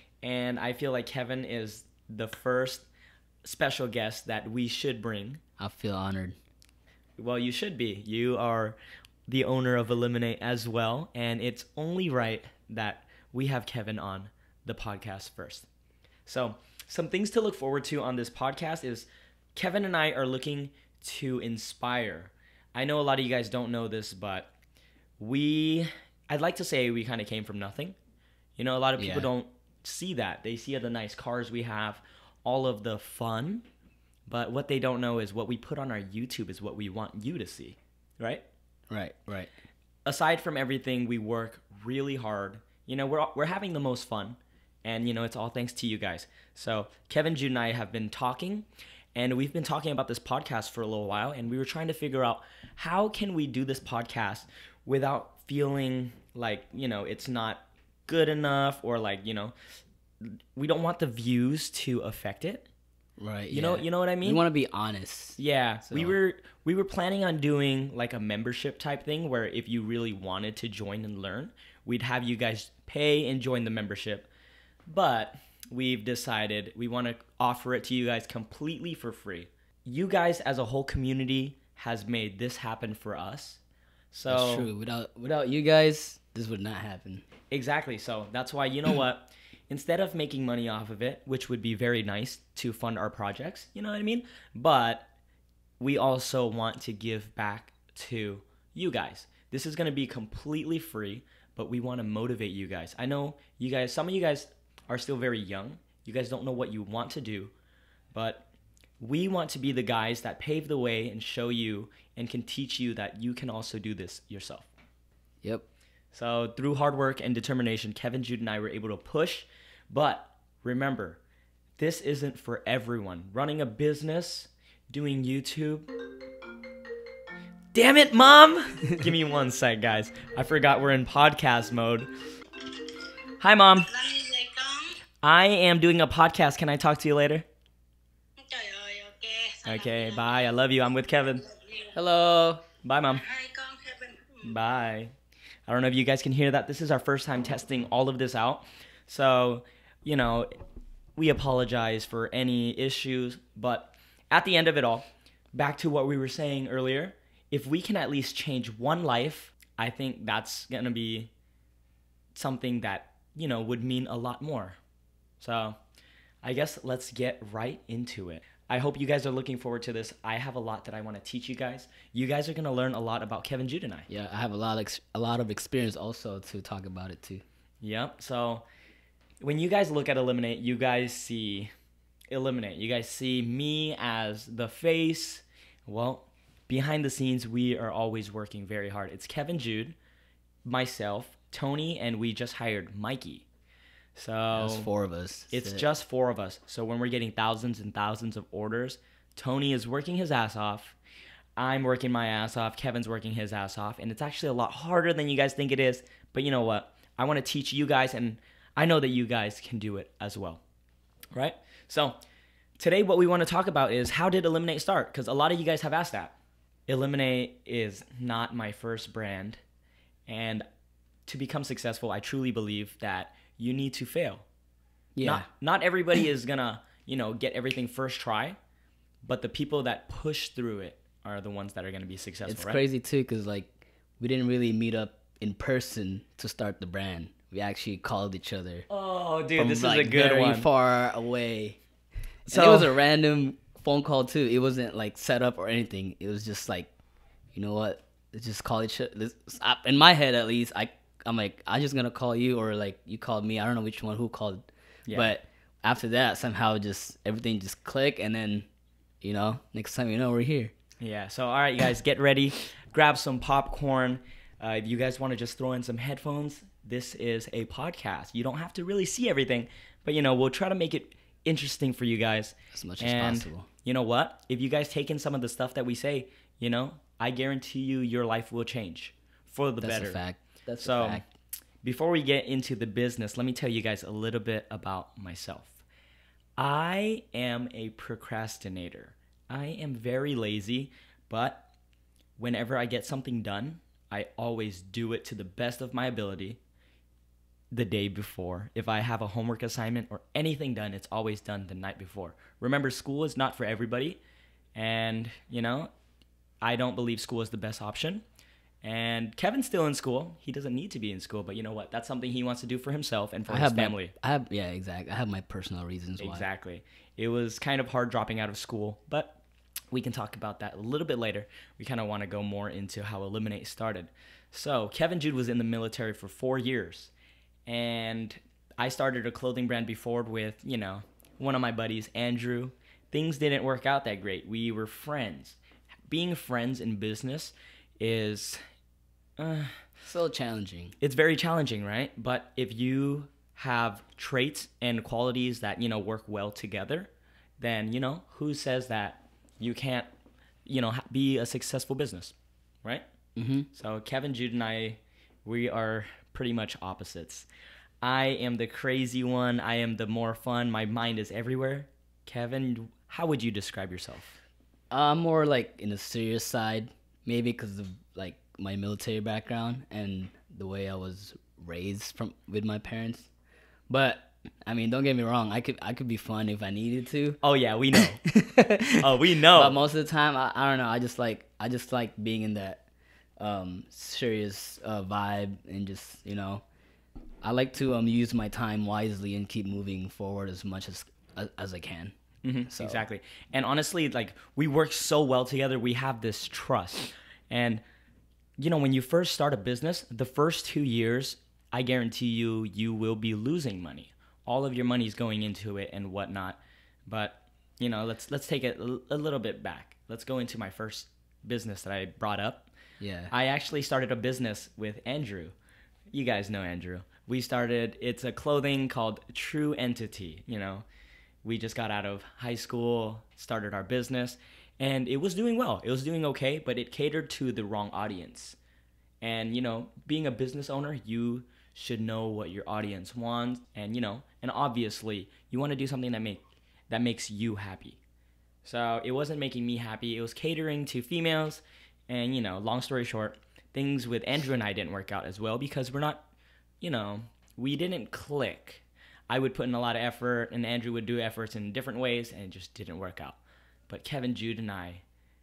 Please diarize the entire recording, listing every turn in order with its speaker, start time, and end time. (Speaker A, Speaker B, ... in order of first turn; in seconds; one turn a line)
Speaker A: 0.2-2.9
Speaker A: 3.4-5.4
Speaker B: 5.6-6.4
Speaker A: 7.2-15.7
Speaker A: 16.3-24.5
Speaker A: 25.2-28.0
Speaker A: 28.6-33.7
Speaker B: 29.0-29.3
Speaker A: 34.3-38.5
Speaker B: 38.9-39.5
Speaker A: 40.1-59.5
Speaker A: 60.2-62.7
Speaker B: 63.2-66.2
Speaker A: 63.5-64.4
Speaker A: 65.4-74.3
Speaker A: 74.9-83.6
Speaker A: 84.1-84.7
Speaker B: 84.3-87.3
Speaker A: 87.5-95.1
Speaker A: 95.8-107.5
Speaker A: 108.1-108.5
Speaker A: 109.0-114.7
Speaker A: 116.1-121.2
Speaker A: 121.8-125.9
Speaker A: 127.7-132.1
Speaker A: 133.4-133.9
Speaker C: 133.9-134.9
Speaker A: 135.2-137.5
Speaker C: 138.4-140.4
Speaker A: 139.7-141.5
Speaker C: 141.5-141.9
Speaker B: 141.9-142.6
Speaker A: 142.8-143.3
Speaker C: 143.2-144.4
Speaker A: 144.4-145.1
Speaker A: 145.7-150.5
Speaker A: 151.2-161.3
Speaker A: 162.3-164.8
Speaker A: 165.4-165.8
Speaker A: 166.4-174.1
Speaker B: 174.1-177.4
Speaker A: 177.8-178.7
Speaker A: 179.4-181.7
Speaker A: 182.3-190.0
Speaker A: 190.7-193.5
Speaker A: 194.2-194.9
Speaker B: 194.5-195.9
Speaker A: 195.5-201.0
Speaker A: 201.6-210.6
Speaker A: 211.3-212.2
Speaker A: 212.8-216.3
Speaker A: 216.9-219.6
Speaker A: 220.3-220.7
Speaker A: 221.3-224.4
Speaker B: 225.2-225.5
Speaker A: 225.2-228.6
Speaker A: 229.2-232.8
Speaker B: 232.5-238.9
Speaker A: 238.9-240.7
Speaker B: 239.6-241.8
Speaker A: 242.5-242.9
Speaker B: 242.5-246.9
Speaker B: 247.5-258.7
Speaker A: 255.1-255.3
Speaker B: 259.2-260.7
Speaker A: 261.0-280.2
Speaker B: 272.7-273.7
Speaker B: 279.8-281.3
Speaker A: 280.8-281.2
Speaker A: 281.8-285.8
Speaker A: 286.6-291.6
Speaker A: 292.4-296.6
Speaker A: 297.7-304.2
Speaker A: 304.8-305.9
Speaker A: 306.6-308.2
Speaker A: 308.8-314.1
Speaker B: 313.5-316.5
Speaker A: 316.2-319.4
Speaker A: 319.9-327.1
Speaker A: 327.7-338.6
Speaker A: 339.4-339.8
Speaker B: 340.1-340.9
Speaker A: 341.0-350.1
Speaker A: 350.6-353.1
Speaker B: 353.4-353.7
Speaker A: 353.7-357.5
Speaker A: 358.0-364.4
Speaker B: 364.9-373.3
Speaker B: 373.9-377.4
Speaker A: 377.4-378.2
Speaker B: 377.9-382.8
Speaker A: 378.9-379.8
Speaker B: 383.4-386.6
Speaker B: 387.4-392.1
Speaker A: 392.4-397.8
Speaker B: 392.7-393.0
Speaker A: 398.6-412.7
Speaker B: 413.0-413.3
Speaker A: 413.3-415.5
Speaker A: 416.1-420.9
Speaker A: 421.4-428.6
Speaker A: 429.2-438.0
Speaker A: 438.6-446.2
Speaker A: 446.8-455.0